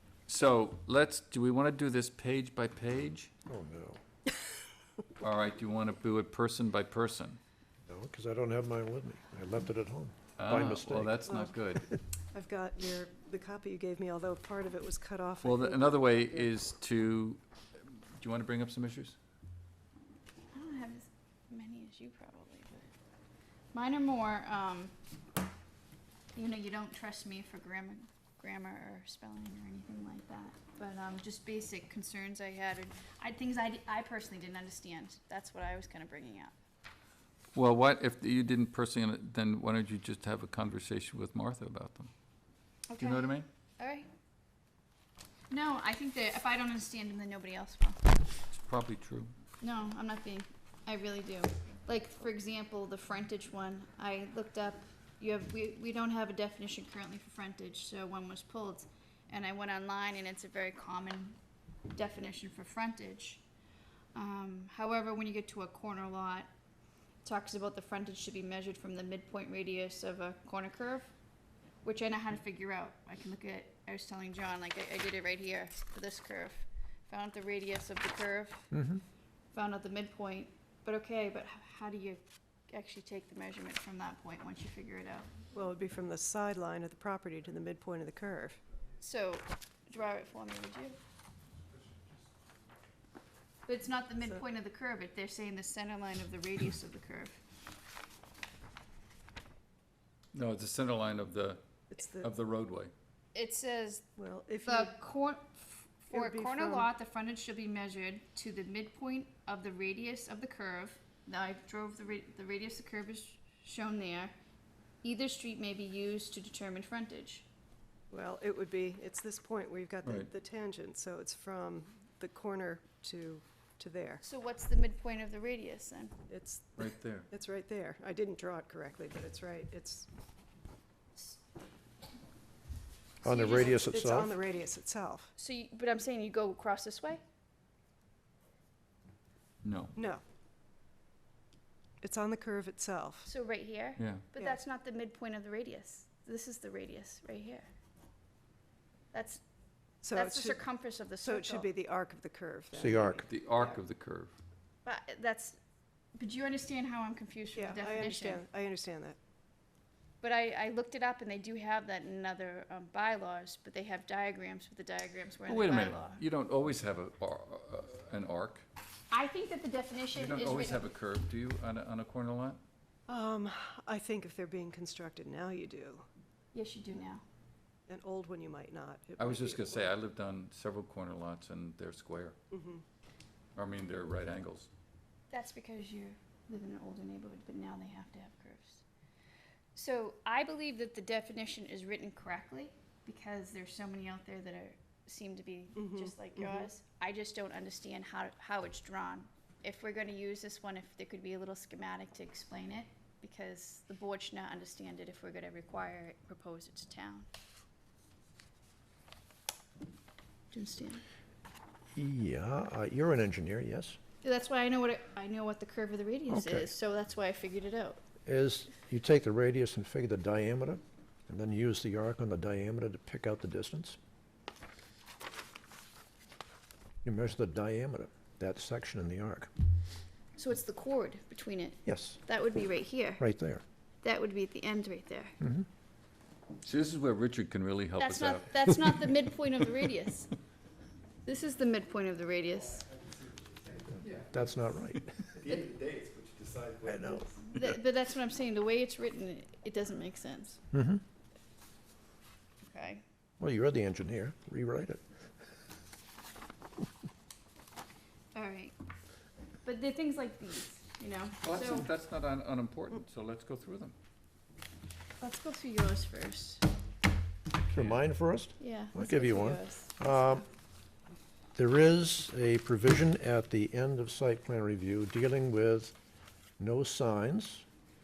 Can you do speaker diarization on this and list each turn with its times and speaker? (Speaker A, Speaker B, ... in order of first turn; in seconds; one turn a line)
Speaker A: 0.3-3.3
Speaker B: 3.5-4.0
Speaker A: 5.2-7.4
Speaker B: 7.9-11.2
Speaker A: 10.4-11.9
Speaker C: 11.3-11.6
Speaker C: 12.3-16.1
Speaker A: 15.4-19.1
Speaker D: 20.5-22.9
Speaker D: 23.7-24.9
Speaker D: 26.3-36.5
Speaker A: 37.5-42.1
Speaker D: 42.9-44.1
Speaker A: 43.0-43.5
Speaker D: 45.5-48.0
Speaker A: 48.6-49.3
Speaker D: 49.6-61.4
Speaker D: 61.9-63.4
Speaker D: 64.1-66.5
Speaker D: 67.2-71.1
Speaker D: 71.8-78.7
Speaker B: 78.7-79.0
Speaker D: 79.5-85.3
Speaker C: 85.5-88.6
Speaker D: 89.0-91.0
Speaker D: 93.7-97.4
Speaker A: 100.3-101.6
Speaker C: 101.9-102.3
Speaker A: 102.1-102.9
Speaker D: 103.3-104.1
Speaker C: 104.2-104.9
Speaker D: 104.6-114.3
Speaker C: 106.1-106.9
Speaker D: 115.0-117.4
Speaker C: 118.1-124.2
Speaker A: 120.0-120.3
Speaker D: 124.2-126.1
Speaker C: 126.3-130.1
Speaker A: 126.8-127.3
Speaker B: 133.2-134.3
Speaker D: 133.2-133.9
Speaker C: 133.2-135.3
Speaker D: 135.4-137.2
Speaker A: 139.6-139.9
Speaker C: 139.9-140.2
Speaker C: 142.0-143.3
Speaker D: 143.2-147.7
Speaker A: 144.0-144.2
Speaker D: 149.1-149.4
Speaker C: 150.0-150.6
Speaker D: 150.1-151.7
Speaker C: 151.2-153.8
Speaker B: 152.7-153.2
Speaker A: 153.2-154.3
Speaker D: 154.8-155.6
Speaker D: 156.2-158.4
Speaker C: 157.5-159.2
Speaker D: 160.2-166.2
Speaker A: 165.5-168.6
Speaker D: 169.1-170.9
Speaker A: 170.1-172.6
Speaker C: 173.1-176.1
Speaker D: 176.5-177.2
Speaker C: 177.9-179.9
Speaker A: 179.2-182.3
Speaker C: 182.5-182.8
Speaker A: 183.6-184.7
Speaker D: 185.3-188.8
Speaker D: 189.7-207.2
Speaker C: 195.8-196.7
Speaker D: 210.5-211.0
Speaker B: 211.9-214.0
Speaker D: 214.2-218.0
Speaker B: 216.3-216.7
Speaker B: 218.2-224.0
Speaker B: 227.0-229.5
Speaker D: 230.3-233.2
Speaker B: 231.8-232.2
Speaker B: 233.2-233.6
Speaker D: 234.0-235.4
Speaker A: 236.6-239.1
Speaker D: 238.0-240.3
Speaker D: 241.2-242.8
Speaker E: 242.9-244.1
Speaker B: 244.1-245.2
Speaker E: 245.4-246.9
Speaker B: 246.8-247.3
Speaker D: 247.4-250.6
Speaker B: 250.7-251.0
Speaker D: 252.6-253.0
Speaker B: 253.4-255.0
Speaker D: 258.3-258.7
Speaker D: 259.6-261.9
Speaker A: 261.4-263.9
Speaker D: 265.2-266.6
Speaker B: 267.7-270.4
Speaker A: 267.7-268.0
Speaker D: 268.6-270.4
Speaker B: 271.5-275.9
Speaker B: 276.6-277.6